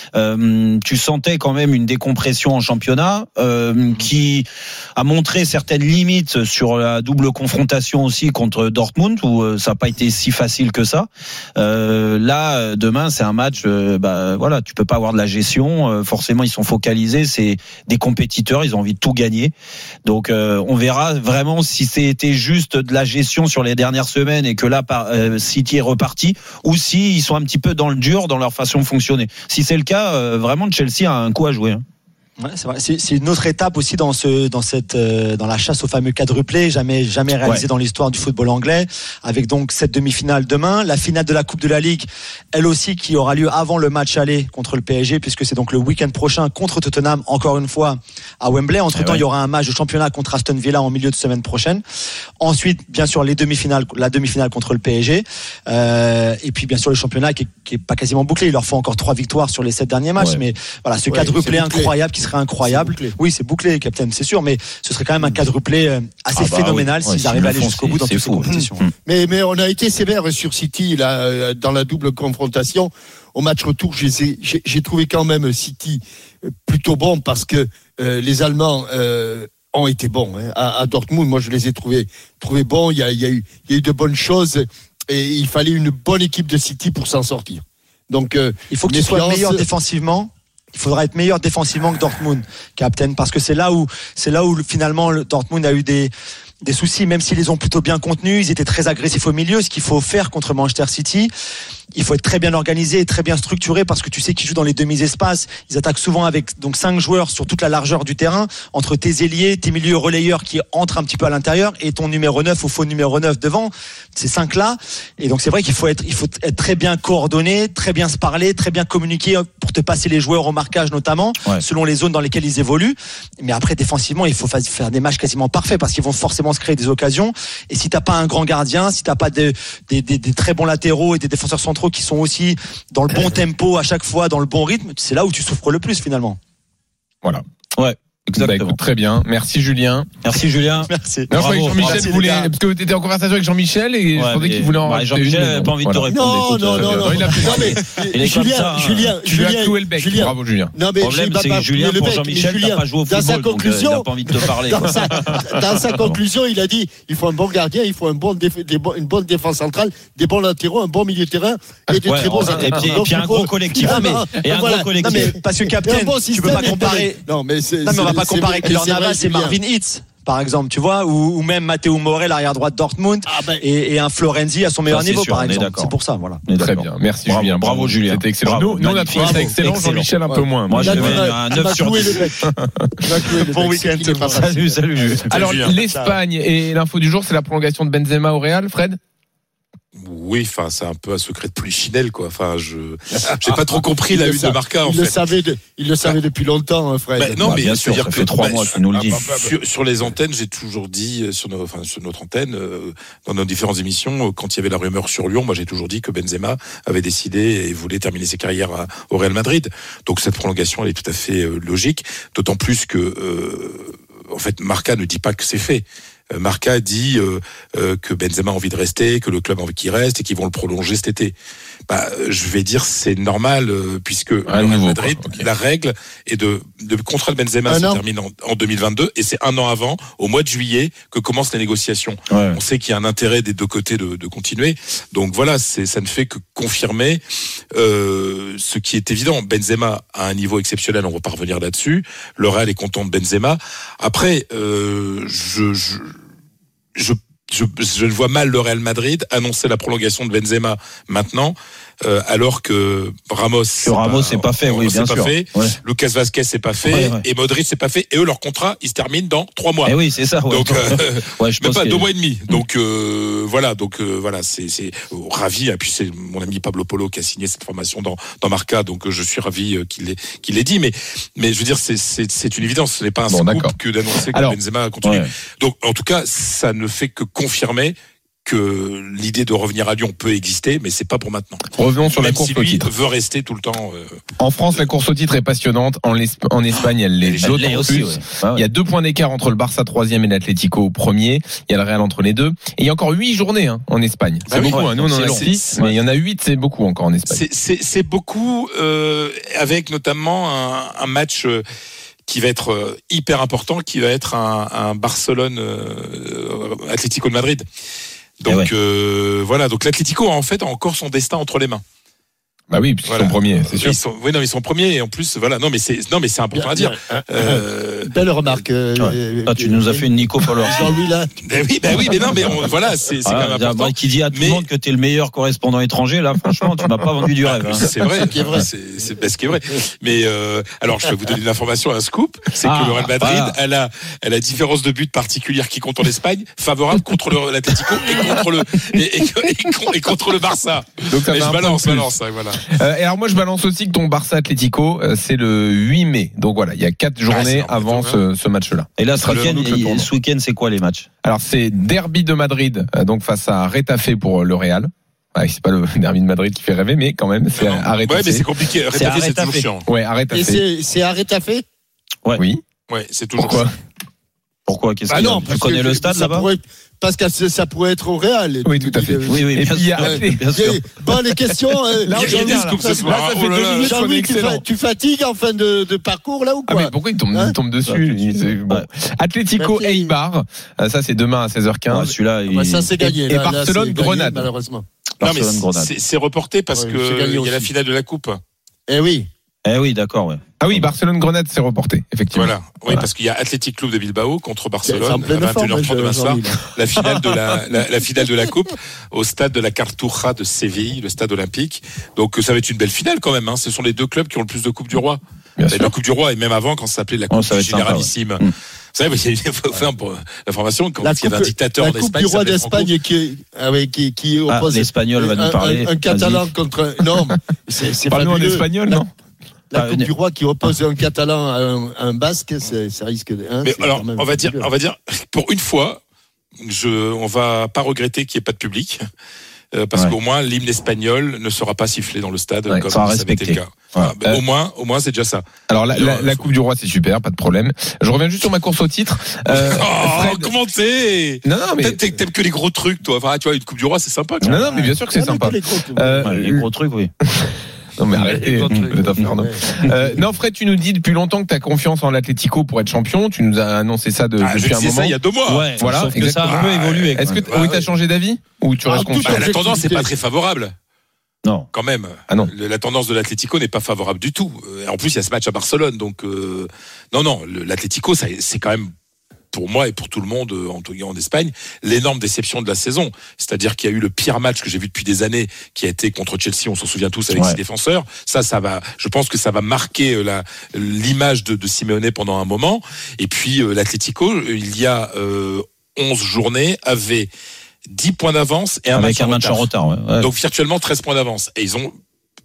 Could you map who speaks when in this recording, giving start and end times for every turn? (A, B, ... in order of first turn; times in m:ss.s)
0:00.1-0:19.5 A
0:20.0-0:31.8 A
0:32.4-0:51.8 B
0:48.9-0:49.2 A
0:52.4-1:08.8 B
1:00.2-1:00.4 A
1:01.0-1:02.0 C
1:02.6-1:03.1 C
1:06.3-1:08.9 A
1:09.0-1:16.0 C
1:16.6-1:29.6 C
1:28.7-1:36.1 B
1:36.6-1:41.3 B
1:41.9-2:16.4 B
2:17.8-2:18.8 A
2:18.4-2:20.2 D
2:20.2-2:22.2 A
2:20.9-2:22.5 B
2:21.3-2:26.1 D
2:24.2-2:29.2 A
2:26.1-2:49.6 C
2:26.8-2:27.8 D
2:29.3-2:30.7 D
2:31.0-2:35.3 A
2:42.0-2:45.4 A
2:43.8-2:44.2 B
2:45.0-2:47.2 B
2:47.8-2:56.4 B
2:53.3-2:53.6 C
2:54.9-2:55.9 A
2:56.5-3:00.1 A
2:56.6-3:01.4 D
2:59.1-3:02.5 C
3:00.6-3:02.3 A
3:03.0-3:06.1 C
3:03.6-3:04.2 B
3:04.0-3:05.7 A
3:05.3-3:09.0 D
3:05.4-3:05.8 E
3:10.0-3:15.3 E
3:13.3-3:18.0 C
3:17.2-3:41.3 E
3:17.4-3:19.2 A
3:19.1-3:19.5 C
3:41.9-3:57.2 E
3:44.4-3:45.4 D
3:47.7-3:48.0 C
3:52.3-3:52.6 A
3:57.7-4:06.1 E
4:07.0-4:44.2 E
4:13.8-4:15.8 A
4:16.9-4:17.2 A
4:19.8-4:22.6 A
4:33.3-4:33.8 D
4:34.3-4:34.6 D
4:35.0-4:35.3 A
4:41.7-4:42.9 D
4:44.4-4:57.4 D
4:47.2-4:48.0 E
4:47.4-4:48.6 A
4:54.5-4:55.8 E
4:54.5-4:56.0 A
4:57.3-5:01.6 E
5:02.3-5:07.6 E
5:08.4-5:11.8 E
5:12.7-5:14.0 D
5:13.0-5:18.6 E
5:16.5-5:22.6 C
5:19.0-5:20.9 A
5:21.4-5:24.6 E
5:23.2-5:27.9 A
5:27.3-5:42.6 E
5:27.8-5:28.6 C
5:32.6-5:33.6 A
5:41.1-5:50.1 D
5:47.3-5:48.2 E
5:49.0-5:51.1 A
5:49.2-5:49.6 E
5:51.2-5:58.5 D
5:57.5-5:59.8 E
5:58.9-5:59.7 A
5:59.8-6:00.6 D
6:00.3-6:01.6 C
6:02.4-6:02.6 D
6:02.9-6:03.7 E
6:03.4-6:03.7 D
6:04.7-6:06.5 A
6:05.1-6:17.5 C
6:08.6-6:14.6 D
6:09.2-6:10.8 A
6:12.1-6:14.0 E
6:16.7-6:22.1 D
6:17.8-6:18.9 A
6:19.6-6:20.1 C
6:21.9-6:23.0 A
6:22.5-6:24.8 C
6:23.0-6:24.5 D
6:25.2-6:25.9 A
6:25.2-6:28.4 E
6:26.7-6:27.7 C
6:28.9-6:29.3 C
6:29.6-6:30.8 A
6:30.6-6:32.5 D
6:32.3-6:48.4 E
6:34.8-6:36.6 C
6:45.6-6:45.9 D
6:47.3-6:48.5 A
6:48.9-6:52.9 E
6:51.0-6:59.0 C
6:54.5-6:56.4 A
6:58.1-6:59.1 D
6:59.7-7:04.7 C
6:59.7-7:00.1 A
7:03.6-7:06.0 E
7:06.6-7:09.0 E
7:09.7-7:16.5 E
7:12.9-7:14.1 A
7:15.7-7:20.5 D
7:19.5-7:24.6 E
7:21.4-7:22.0 D
7:24.4-7:26.6 D
7:24.5-7:26.4 C
7:26.2-7:27.1 A
7:27.2-7:35.2 D
7:28.1-7:30.2 C
7:34.4-7:35.8 E
7:35.5-7:37.5 A
7:35.8-7:36.6 D
7:36.4-7:37.8 E
7:37.1-7:39.6 D
7:38.8-7:40.1 C
7:39.2-7:40.7 E
7:41.4-7:41.7 A
7:41.7-7:48.9 E
7:49.5-8:07.3 E
7:57.3-7:57.6 A
8:07.9-8:11.9 E
8:08.9-8:10.3 A